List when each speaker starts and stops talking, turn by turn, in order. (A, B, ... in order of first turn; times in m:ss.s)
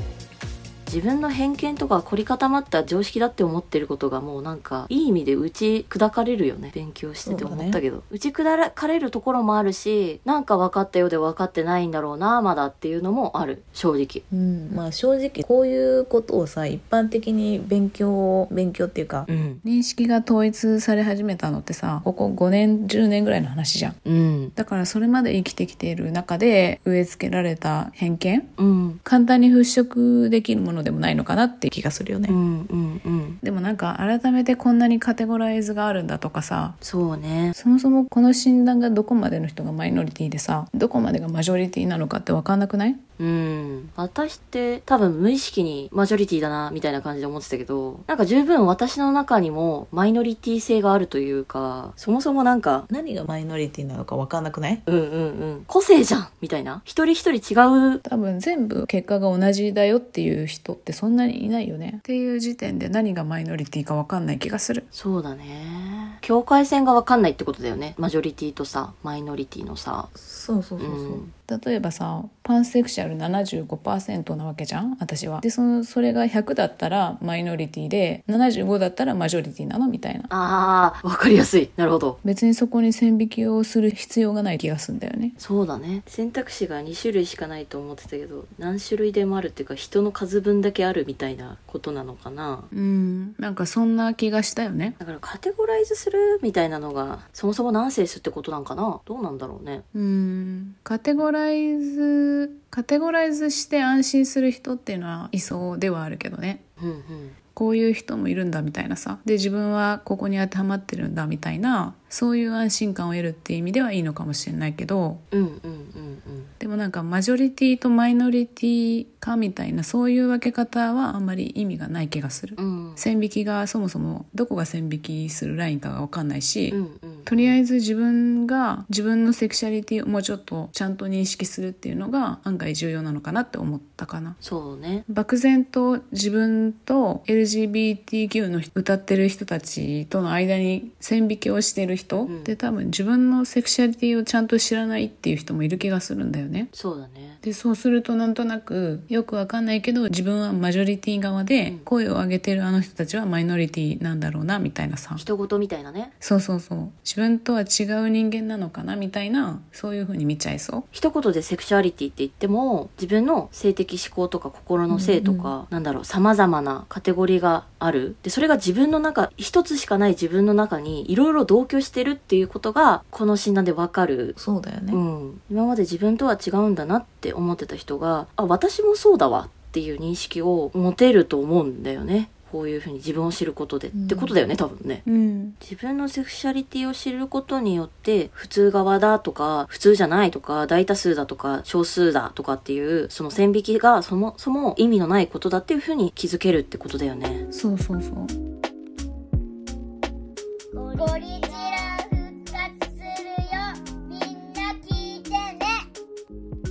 0:00.9-0:14.2 A
0:07.2-0:07.8 B
0:14.3-0:19.3 B
0:19.3-0:19.6 A
0:19.6-0:24.0 C
0:24.0-0:24.6 A
0:24.6-0:28.5 C
0:28.6-0:29.0 A
0:29.0-0:31.7 C
0:31.7-0:32.4 B
0:32.3-0:33.4 A
0:33.4-0:36.8 C
0:36.8-0:37.5 A
0:37.6-0:43.0 C
0:43.2-0:52.9 A
0:52.9-0:54.8 B
0:54.9-0:58.0 A
0:58.0-1:04.9 C
1:04.9-1:10.1 A
1:10.1-1:11.2 B
1:10.8-1:11.3 A
1:11.5-1:20.3 C
1:20.3-1:22.2 A
1:22.2-1:25.4 C
1:25.4-1:32.7 A
1:32.7-1:35.0 C
1:35.0-1:39.8 A
1:39.9-1:46.6 C
1:46.8-1:47.4 A
1:47.5-1:55.2 C
1:55.3-1:56.5 A
1:56.6-2:14.4 C
2:02.6-2:03.0 A
2:06.7-2:07.6 A
2:14.4-2:15.1 A
2:15.1-2:26.7 C
2:22.3-2:22.6 A
2:26.7-2:27.4 A
2:27.4-2:35.2 C
2:35.2-2:36.1 A
2:36.2-2:40.9 C
2:40.9-2:54.4 A
2:44.9-2:45.5 B
2:54.4-2:55.0 B
2:54.9-3:05.0 A
3:03.9-3:04.4 B
3:05.1-3:05.6 C
3:05.6-3:17.4 A
3:17.5-3:18.3 C
3:20.8-3:25.7 D